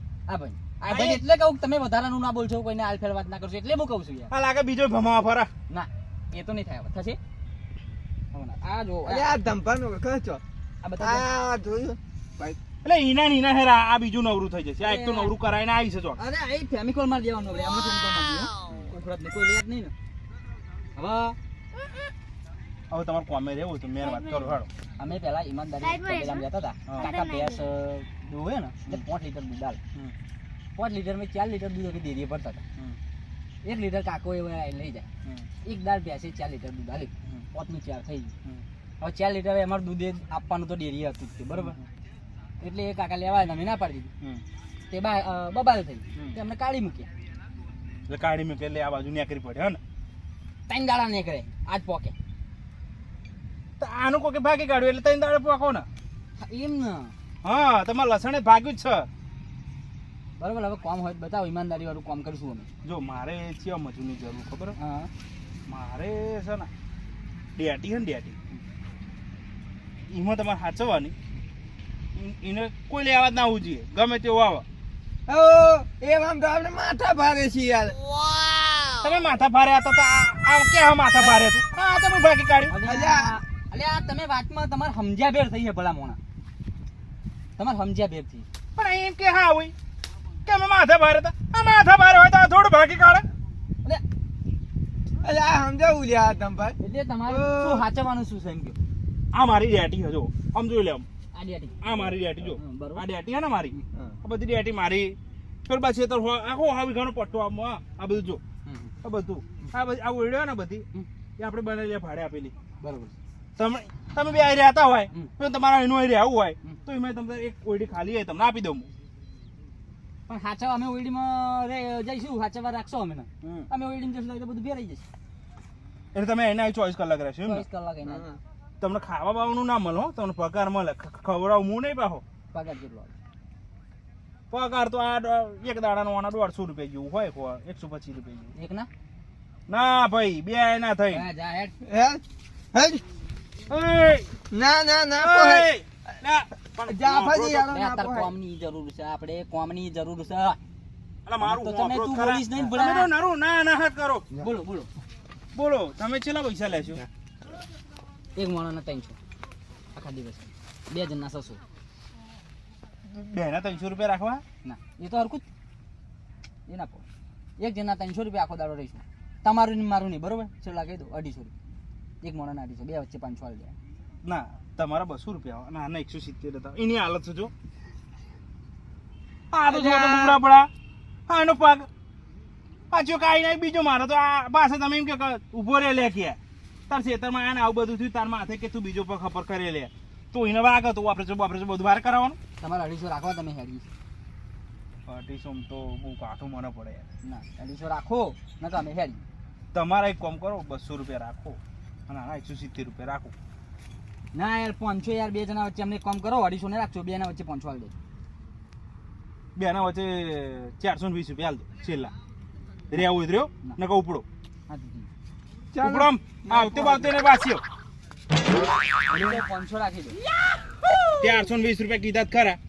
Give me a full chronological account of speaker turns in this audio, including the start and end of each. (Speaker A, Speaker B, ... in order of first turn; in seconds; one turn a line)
Speaker A: 0.3-4.3
Speaker B: 0.9-1.2
Speaker B: 4.3-5.5
Speaker A: 5.7-7.2
Speaker A: 8.3-9.3
Speaker C: 9.1-10.4
Speaker A: 10.8-11.3
Speaker C: 11.0-12.6
Speaker B: 12.8-16.2
Speaker A: 14.8-15.3
Speaker A: 16.2-19.9
Speaker A: 21.0-21.4
Speaker B: 22.9-24.7
Speaker A: 25.0-30.1
Speaker B: 26.9-27.1
Speaker A: 30.8-32.8
Speaker A: 33.6-38.3
Speaker A: 39.0-41.8
Speaker A: 42.6-44.1
Speaker A: 44.9-47.1
Speaker B: 48.1-49.8
Speaker A: 50.7-52.1
Speaker B: 53.8-55.9
Speaker A: 56.4-57.1
Speaker B: 57.4-59.1
Speaker A: 60.4-62.7
Speaker B: 62.8-64.8
Speaker A: 64.8-65.1
Speaker B: 65.7-66.7
Speaker B: 67.5-68.4
Speaker B: 70.1-71.2
Speaker B: 72.2-74.7
Speaker C: 75.3-78.0
Speaker B: 79.0-82.8
Speaker A: 82.7-86.2
Speaker C: 82.8-83.4
Speaker A: 87.6-88.5
Speaker B: 88.8-89.7
Speaker B: 90.5-93.3
Speaker C: 95.2-97.8
Speaker A: 96.8-98.8
Speaker B: 99.3-101.1
Speaker A: 101.3-101.8
Speaker B: 101.8-108.4
Speaker A: 102.5-103.0
Speaker A: 108.7-109.0
Speaker B: 109.0-110.9
Speaker B: 111.4-112.5
Speaker A: 112.8-113.2
Speaker B: 113.6-118.9
Speaker A: 120.3-125.0
Speaker B: 126.1-127.7
Speaker A: 127.4-128.2
Speaker C: 128.1-128.4
Speaker B: 128.8-132.2
Speaker A: 132.5-133.2
Speaker B: 134.5-138.5
Speaker A: 138.6-138.9
Speaker B: 139.7-141.3
Speaker A: 141.1-141.8
Speaker C: 141.8-142.2
Speaker C: 142.7-143.0
Speaker B: 143.7-144.3
Speaker C: 144.5-145.7
Speaker B: 145.2-147.7
Speaker C: 146.9-148.3
Speaker A: 147.7-150.6
Speaker B: 151.3-154.3
Speaker A: 151.4-153.1
Speaker A: 154.4-154.9
Speaker B: 155.5-157.0
Speaker A: 158.4-159.2
Speaker A: 159.9-161.6
Speaker B: 163.1-164.4
Speaker A: 164.6-165.5
Speaker A: 166.7-167.1
Speaker A: 167.6-171.5
Speaker A: 172.2-173.8
Speaker B: 174.2-177.5
Speaker B: 179.5-180.7
Speaker C: 179.7-180.4
Speaker B: 181.3-181.9
Speaker B: 182.9-186.4
Speaker B: 186.9-192.4
Speaker A: 192.6-193.9
Speaker B: 195.1-197.1
Speaker A: 197.2-199.2
Speaker B: 199.7-203.3
Speaker A: 204.3-207.9
Speaker B: 209.6-212.1
Speaker B: 212.9-214.2
Speaker A: 214.7-215.1
Speaker C: 215.7-217.1
Speaker B: 215.8-217.6
Speaker B: 219.1-219.4
Speaker A: 219.1-220.2
Speaker B: 221.2-222.6